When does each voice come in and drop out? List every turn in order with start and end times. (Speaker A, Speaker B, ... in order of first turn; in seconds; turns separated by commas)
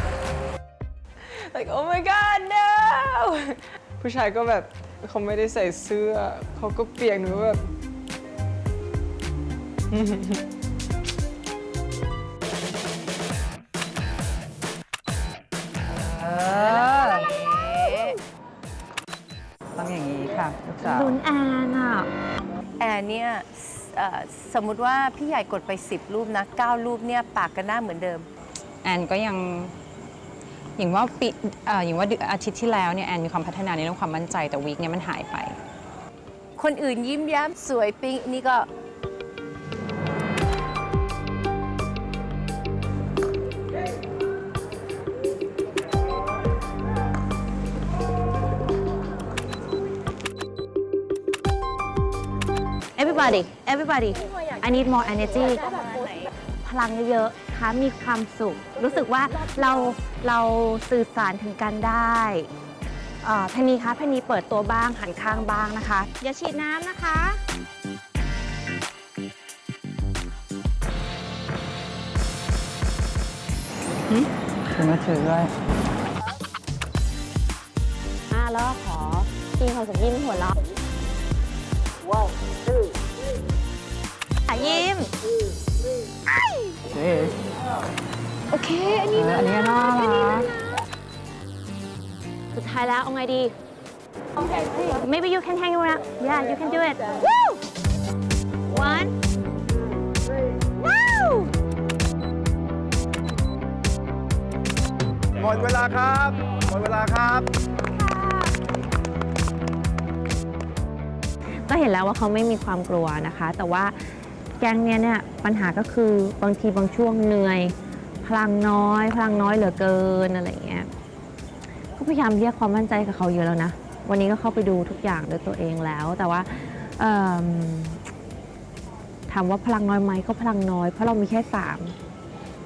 Speaker A: 1.2-7.6, Speaker A: 9.9-10.4, Speaker B: 16.1-17.3, Speaker C: 16.7-18.2, Speaker B: 19.8-21.2, Speaker D: 20.8-22.1, Speaker C: 22.8-28.3, Speaker B: 28.8-29.7, Speaker B: 30.8-35.6, Speaker C: 36.6-38.7, Speaker D: 53.0-56.1, Speaker D: 56.6-62.5, Speaker D: 63.2-67.4, Speaker B: 74.1-75.5, Speaker D: 78.3-80.5, Speaker D: 84.5-85.1, Speaker B: 86.9-87.3, Speaker B: 89.1-90.5, Speaker D: 92.5-93.5, Speaker D: 94.8-97.2, Speaker D: 98.7-99.1, Speaker D: 100.8-101.5, Speaker E: 105.4-107.5, Speaker D: 108.0-108.5, Speaker D: 111.7-114.0, Speaker D: 114.6-120.9, Speaker D: 122.0-128.0, Speaker D: 129.3-131.9